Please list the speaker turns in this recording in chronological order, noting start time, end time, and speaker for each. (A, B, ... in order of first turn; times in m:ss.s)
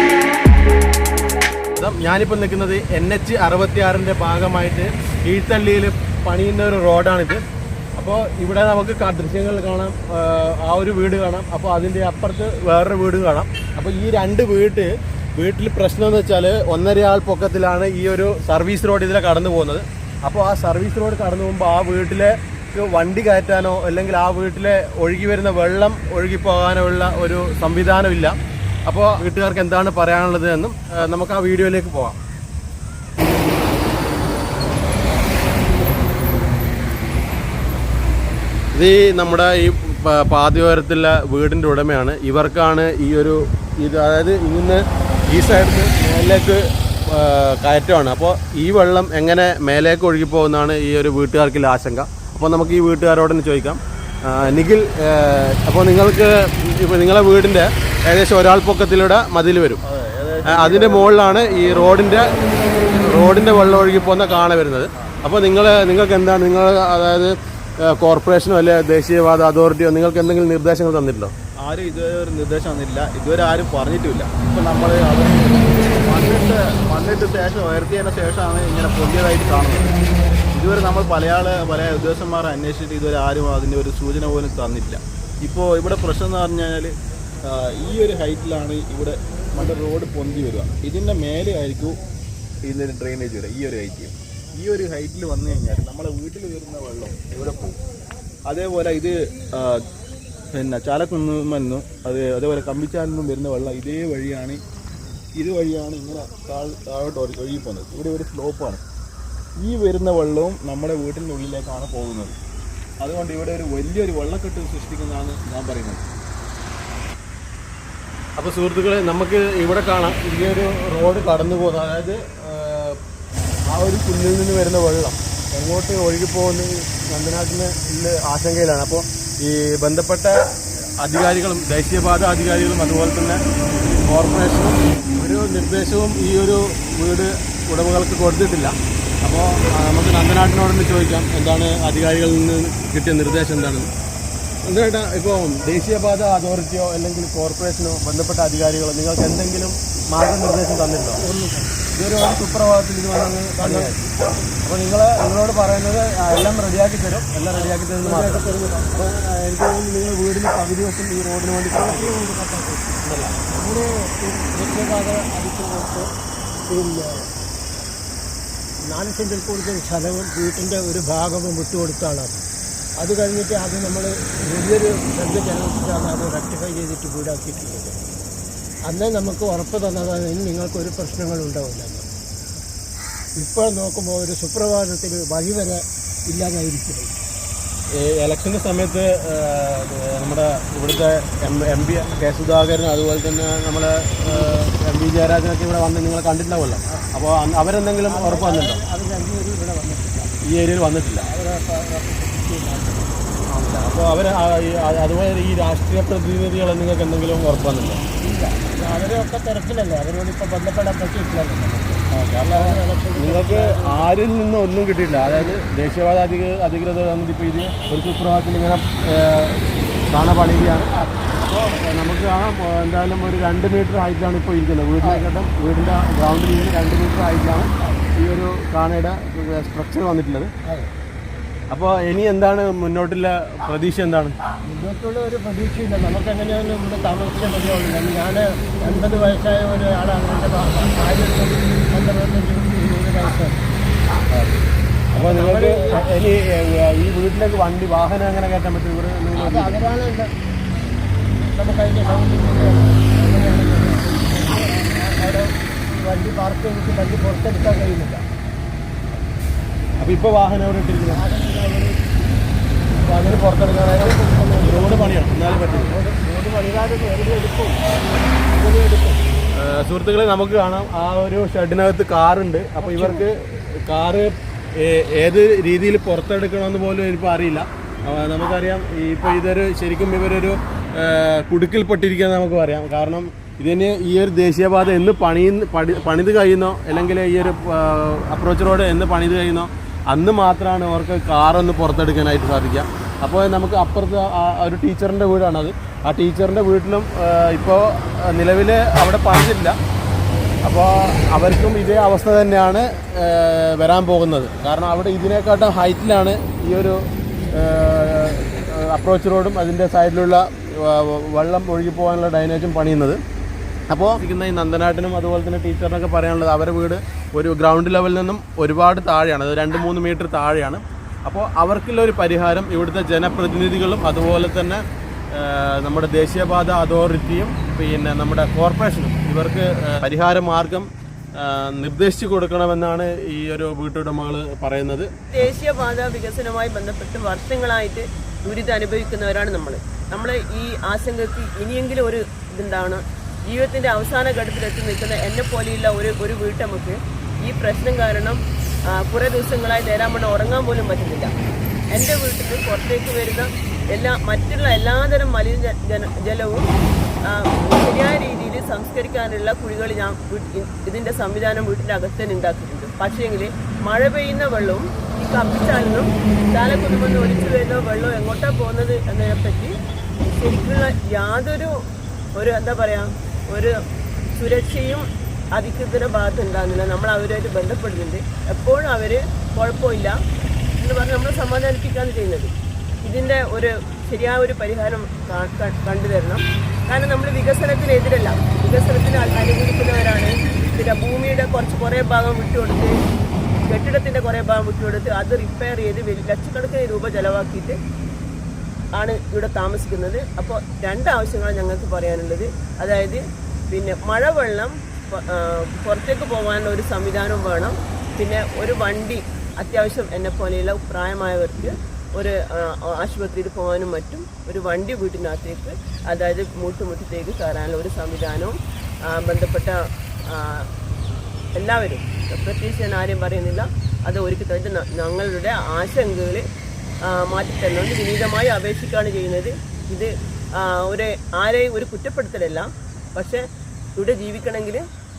0:01.8-0:07.4 A
0:08.0-0:28.4 A
0:28.9-0:32.2 A
0:38.7-0:59.8 A
0:59.8-1:01.2 B
1:00.5-1:02.3 A
1:02.9-1:11.3 A
1:04.2-1:05.2 B
1:11.6-1:20.0 B
1:20.6-1:26.9 B
1:27.5-1:32.0 B
1:32.7-1:37.8 B
1:38.5-1:39.8 B
1:40.5-1:44.6 B
1:45.4-1:48.8 B
1:49.6-1:52.4 B
1:53.0-1:56.0 B
1:58.4-2:03.0 A
2:03.7-2:10.4 A
2:11.0-2:23.9 A
2:24.7-2:31.2 A
2:31.2-2:31.8 C
2:31.9-2:34.1 A
2:33.6-2:34.0 C
2:34.6-2:38.4 A
2:37.5-2:39.0 C
2:38.9-2:42.2 A
2:41.8-2:42.9 C
2:43.0-2:43.4 A
2:43.5-2:46.1 C
2:46.7-2:47.3 C
2:48.9-2:52.4 C
2:53.0-2:58.0 C
2:58.9-3:02.0 C
3:03.4-3:07.1 C
3:08.0-3:18.8 A
3:14.2-3:14.6 C
3:18.0-3:20.3 C
3:20.5-3:21.3 A
3:21.2-3:23.2 C
3:23.5-3:28.0 A
3:28.2-3:34.1 C
3:32.1-3:40.9 A
3:40.9-3:41.3 C
3:41.4-3:50.5 A
3:47.8-3:48.1 C
3:50.6-3:50.9 C
3:51.7-3:54.4 A
3:54.7-4:03.6 C
4:04.3-4:04.6 A
4:05.1-4:09.8 A
4:05.1-4:05.8 C
4:09.4-4:10.3 C
4:11.5-4:18.2 C
4:20.0-4:21.2 A
4:21.1-4:22.0 C
4:23.0-4:26.0 A
4:23.8-4:29.2 C
4:29.6-4:59.8 A
4:32.8-4:33.3 C
5:00.6-5:07.0 A
5:07.6-5:13.2 A
5:13.9-5:24.8 A
5:25.3-5:30.9 A
5:31.4-5:35.5 A
5:35.3-5:48.4 D
5:49.0-5:51.3 D
5:51.9-5:56.7 D
5:57.3-6:09.7 D
6:10.3-6:11.7 D
6:12.4-6:13.7 D
6:14.4-6:20.2 D
6:20.8-6:22.5 D
6:23.0-6:32.9 D
6:33.6-6:37.8 D
6:39.0-6:58.6 D
6:59.1-6:59.8 D
7:00.3-7:00.7 D
7:01.6-7:06.4 D
7:07.1-7:13.4 D
7:14.0-7:14.8 D